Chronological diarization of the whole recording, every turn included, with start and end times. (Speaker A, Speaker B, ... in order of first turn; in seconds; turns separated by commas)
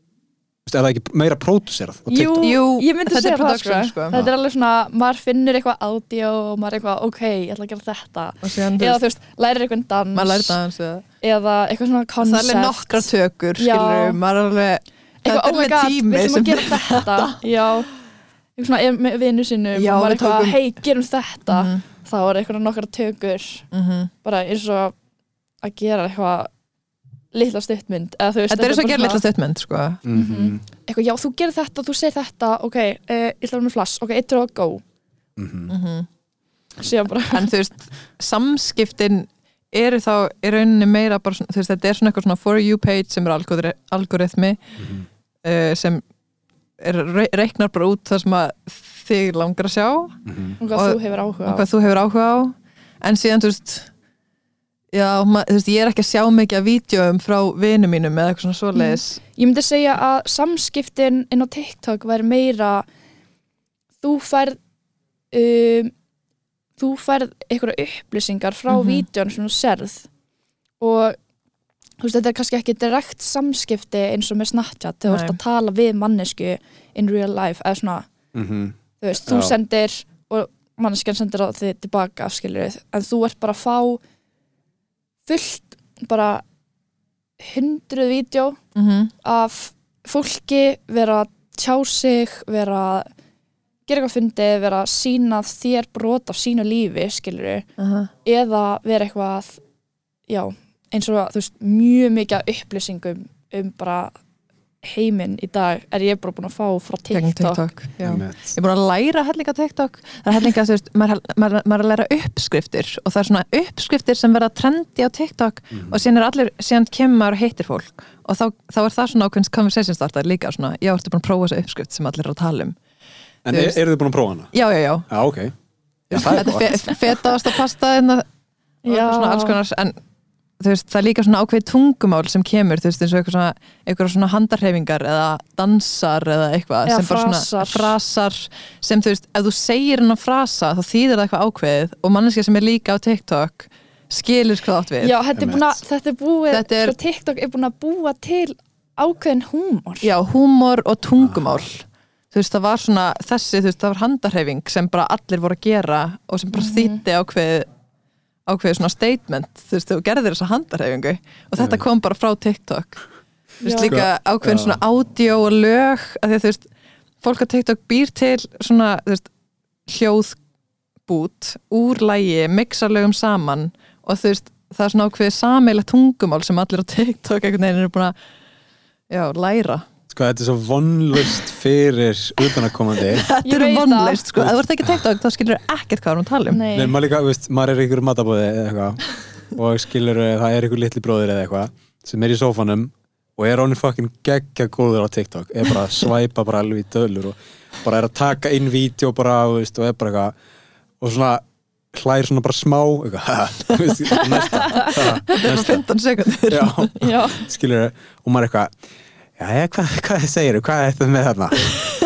Speaker A: 0.7-2.5, Speaker B: 2.1-10.6, Speaker C: 2.4-4.2, Speaker C: 8.4-9.0, Speaker C: 10.1-11.1, Speaker B: 11.2-14.2, Speaker C: 12.2-17.4, Speaker B: 15.2-17.9, Speaker B: 18.6-23.7, Speaker C: 19.7-20.6, Speaker C: 21.5-21.8, Speaker C: 23.7-24.1, Speaker B: 24.2-24.9, Speaker B: 25.6-26.5, Speaker B: 27.3-29.2, Speaker C: 28.5-30.0, Speaker A: 30.1-30.6, Speaker B: 30.1-34.8, Speaker A: 35.4-35.7, Speaker C: 35.7-36.1, Speaker B: 36.8-37.5, Speaker C: 37.3-44.6, Speaker A: 44.8-45.1, Speaker C: 45.4-46.0, Speaker C: 46.8-53.9, Speaker A: 50.3-50.6, Speaker B: 50.6-51.7, Speaker C: 54.9-59.2, Speaker B: 58.7-62.9, Speaker B: 64.0-64.6, Speaker B: 65.3-65.9, Speaker B: 66.8-70.1, Speaker C: 68.7-69.0, Speaker B: 70.8-71.2, Speaker B: 72.0-78.1, Speaker C: 75.0-75.4, Speaker A: 78.3-79.5, Speaker B: 79.0-84.0, Speaker B: 85.3-86.4, Speaker B: 87.4-88.6, Speaker C: 88.8-89.1, Speaker B: 89.2-93.1, Speaker B: 93.9-97.7, Speaker C: 97.8-98.1, Speaker B: 98.2-99.6, Speaker B: 100.3-104.2, Speaker B: 104.8-107.7, Speaker C: 107.1-122.8, Speaker A: 108.0-108.6, Speaker A: 115.7-116.0, Speaker A: 123.5-124.5, Speaker C: 123.5-123.8, Speaker C: 124.5-125.1, Speaker A: 125.1-125.5, Speaker A: 126.1-126.7, Speaker C: 126.1-128.3, Speaker B: 128.8-129.6, Speaker C: 128.9-130.0, Speaker C: 130.6-145.2, Speaker B: 136.8-137.9, Speaker B: 145.0-150.1, Speaker A: 145.4-145.8, Speaker C: 146.5-146.9, Speaker C: 150.0-157.7, Speaker A: 151.2-151.6, Speaker B: 156.5-157.0, Speaker C: 158.5-163.0, Speaker A: 161.6-161.8, Speaker C: 163.6-166.7, Speaker B: 163.6-164.0, Speaker A: 163.9-164.8, Speaker C: 167.2-169.3, Speaker C: 169.9-170.4, Speaker C: 171.1-178.1, Speaker C: 179.1-179.9, Speaker A: 180.1-183.3, Speaker C: 182.4-186.6, Speaker B: 183.4-184.2, Speaker A: 184.4-185.0, Speaker B: 186.5-186.9, Speaker A: 186.7-200.3, Speaker A: 201.0-205.8, Speaker C: 203.9-206.9, Speaker A: 206.5-208.7, Speaker B: 207.0-207.4, Speaker A: 209.4-211.8